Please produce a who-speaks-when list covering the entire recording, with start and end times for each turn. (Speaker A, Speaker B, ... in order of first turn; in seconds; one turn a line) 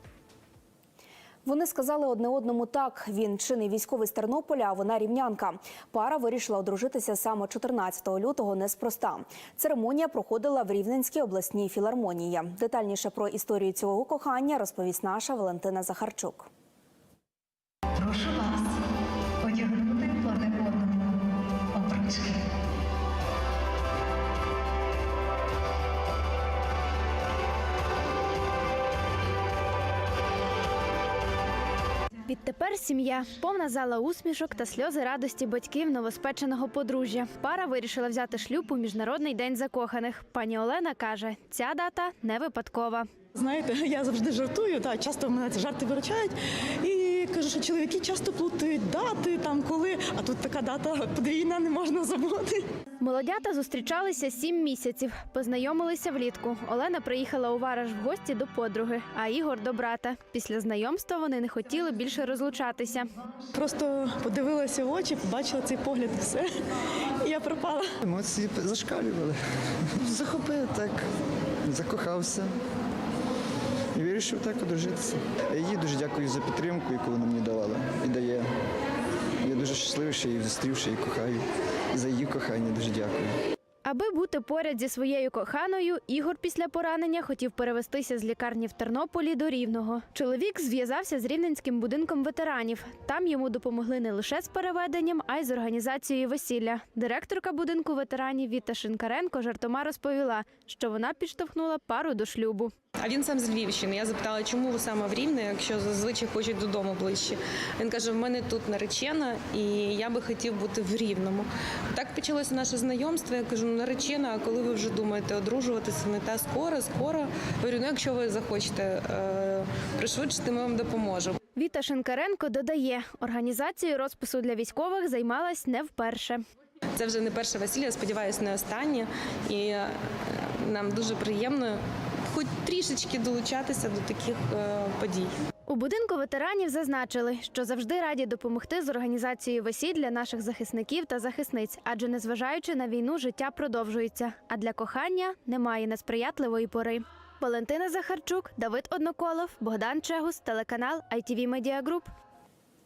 Speaker A: 1.4-16.5
Speaker B: 17.9-18.8
Speaker B: 19.4-21.2
Speaker B: 21.7-22.3
Speaker C: 32.3-43.1
Speaker B: 43.3-46.3
Speaker B: 46.8-52.4
Speaker C: 53.0-63.1
Speaker B: 64.1-64.4
Speaker B: 65.0-66.3
Speaker D: 68.0-69.4
Speaker D: 70.0-71.1
Speaker D: 71.6-72.5
Speaker D: 73.9-78.5
Speaker D: 79.4-83.3
Speaker C: 83.8-102.7
Speaker E: 103.0-121.4
Speaker C: 121.5-126.4
Speaker E: 127.0-135.3
Speaker C: 135.7-152.1